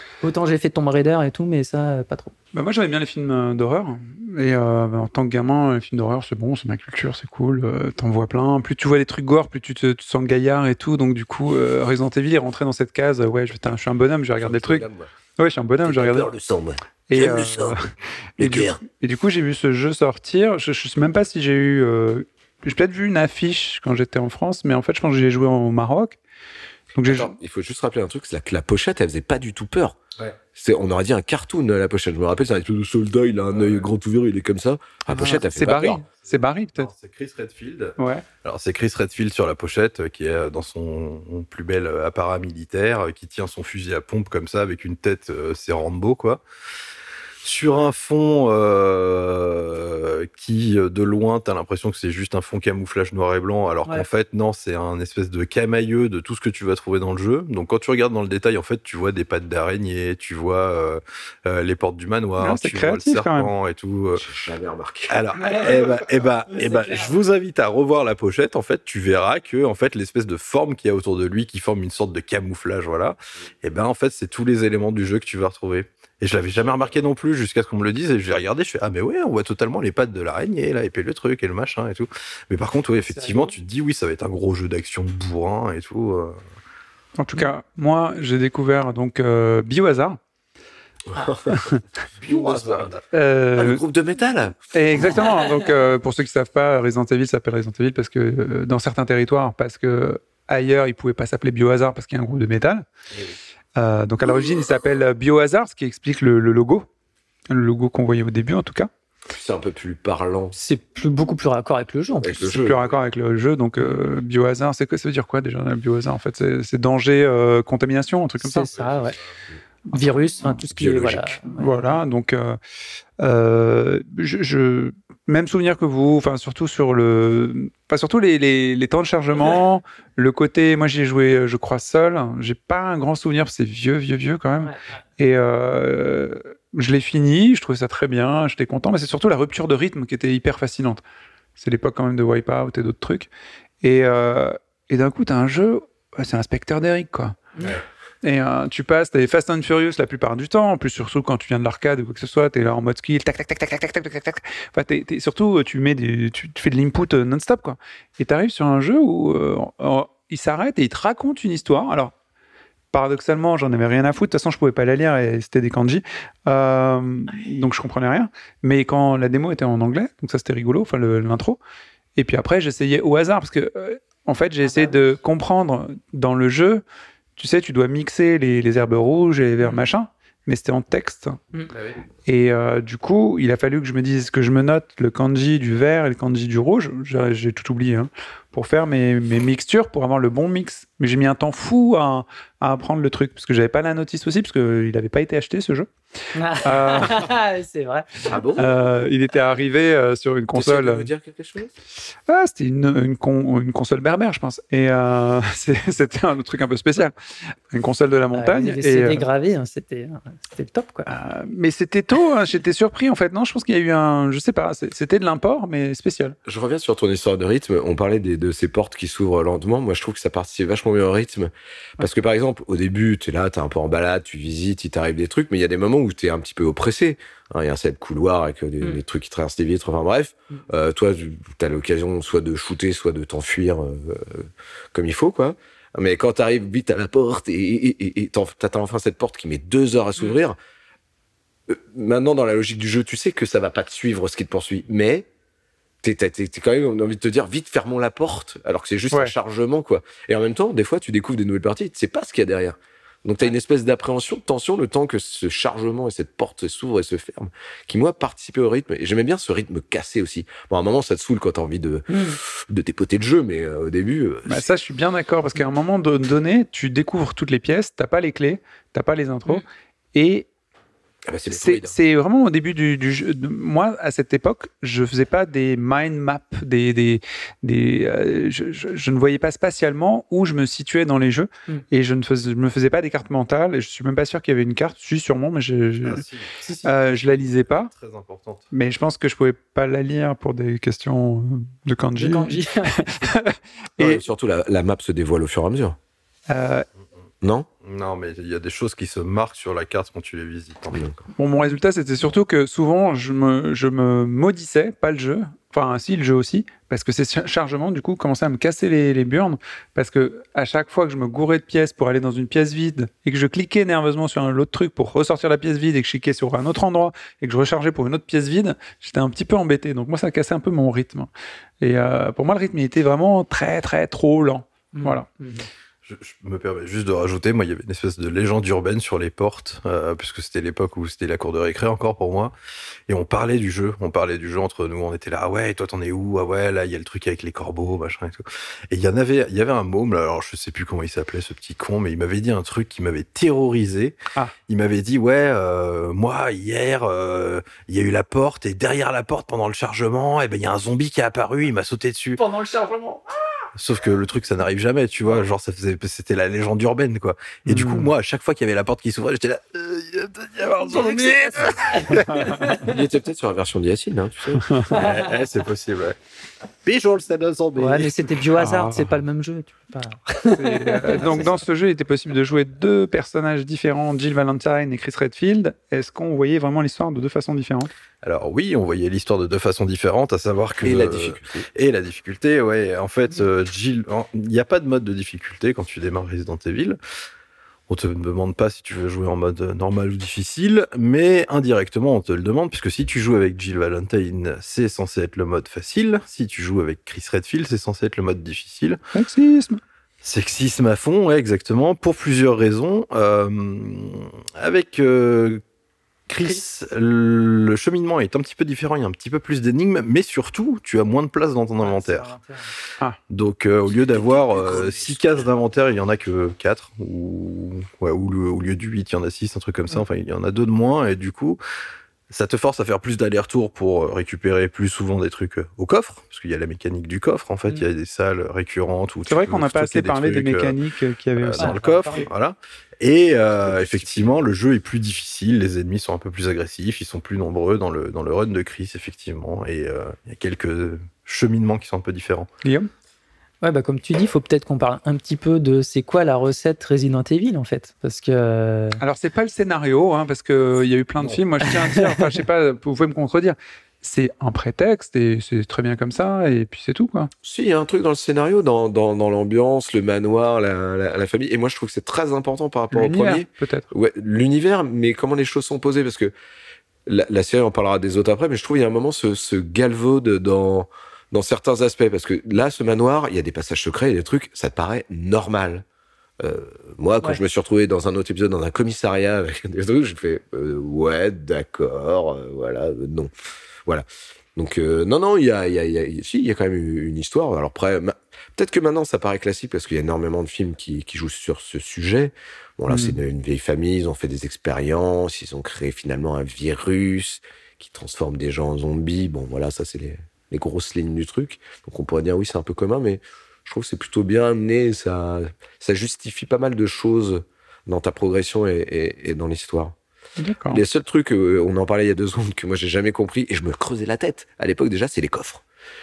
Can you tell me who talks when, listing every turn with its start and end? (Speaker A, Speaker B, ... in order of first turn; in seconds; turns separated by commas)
Speaker A: 0.2-2.3, Speaker B: 2.5-14.9, Speaker C: 14.4-15.1, Speaker B: 15.4-16.3, Speaker C: 15.8-18.8, Speaker B: 17.1-26.2, Speaker B: 27.0-27.3, Speaker C: 27.0-30.0, Speaker C: 30.6-36.0, Speaker D: 33.5-33.9, Speaker B: 35.1-36.9, Speaker D: 36.2-46.4, Speaker B: 38.0-38.2, Speaker D: 47.4-64.2, Speaker B: 62.4-63.5, Speaker C: 64.1-65.2, Speaker D: 65.1-86.4, Speaker A: 65.4-67.1, Speaker A: 83.1-83.6, Speaker B: 87.2-90.2, Speaker C: 91.1-91.6, Speaker B: 91.5-91.8, Speaker C: 92.2-92.9, Speaker D: 92.3-93.0, Speaker B: 93.1-93.8, Speaker C: 93.5-94.6, Speaker B: 94.7-102.9, Speaker B: 103.8-106.9, Speaker B: 107.5-108.9, Speaker C: 109.3-110.6, Speaker A: 110.5-112.5, Speaker C: 112.2-112.9, Speaker B: 112.4-118.7, Speaker A: 113.8-114.1, Speaker A: 118.4-119.2, Speaker A: 119.9-121.7, Speaker C: 120.7-121.4, Speaker B: 121.5-122.6, Speaker B: 123.2-141.0, Speaker B: 141.6-143.3, Speaker B: 143.8-147.4, Speaker B: 148.2-162.1, Speaker B: 162.9-171.6, Speaker B: 172.2-176.8, Speaker A: 174.6-175.0, Speaker B: 177.4-181.4, Speaker B: 182.3-195.9, Speaker A: 196.3-198.4, Speaker B: 196.6-197.3, Speaker C: 198.3-198.8, Speaker B: 198.6-201.1, Speaker C: 200.5-201.7, Speaker B: 202.3-209.2, Speaker A: 208.3-211.1, Speaker B: 211.1-216.4, Speaker C: 216.4-240.6, Speaker C: 241.7-245.3, Speaker C: 246.0-264.7, Speaker A: 262.1-262.4, Speaker B: 264.5-269.6, Speaker B: 270.1-270.5, Speaker C: 271.3-272.0, Speaker B: 271.5-286.2, Speaker D: 286.0-288.7, Speaker B: 286.9-287.9, Speaker B: 288.7-294.2, Speaker A: 292.2-293.1, Speaker C: 294.0-296.0, Speaker B: 296.5-296.9, Speaker C: 297.4-297.7, Speaker D: 297.8-301.1, Speaker C: 300.9-301.2, Speaker B: 301.4-321.3, Speaker B: 321.8-325.3, Speaker A: 324.9-325.7, Speaker D: 326.1-332.5, Speaker D: 333.1-344.2, Speaker D: 344.7-352.4, Speaker A: 352.4-353.3, Speaker D: 353.8-362.6, Speaker B: 357.7-358.1, Speaker A: 360.9-363.0, Speaker C: 362.8-364.7, Speaker B: 364.6-364.9, Speaker A: 364.9-365.4, Speaker D: 364.9-366.2, Speaker D: 366.8-368.3, Speaker A: 367.8-371.6, Speaker B: 368.6-369.2, Speaker B: 370.5-377.9, Speaker D: 378.2-387.0, Speaker C: 380.8-381.7, Speaker D: 387.9-399.0, Speaker B: 399.1-399.8, Speaker D: 400.2-405.6, Speaker D: 406.3-412.3, Speaker A: 411.8-412.7, Speaker D: 413.3-421.6, Speaker D: 422.3-430.8, Speaker B: 429.3-431.7, Speaker D: 431.4-442.5, Speaker A: 431.6-432.3, Speaker C: 433.6-434.5, Speaker B: 442.6-442.9, Speaker A: 443.6-449.0, Speaker B: 449.0-457.3, Speaker C: 457.4-466.3, Speaker B: 462.9-463.9, Speaker C: 467.1-475.9, Speaker C: 476.4-483.3, Speaker C: 484.6-510.0, Speaker B: 492.9-493.2, Speaker B: 510.4-510.8, Speaker C: 510.7-515.6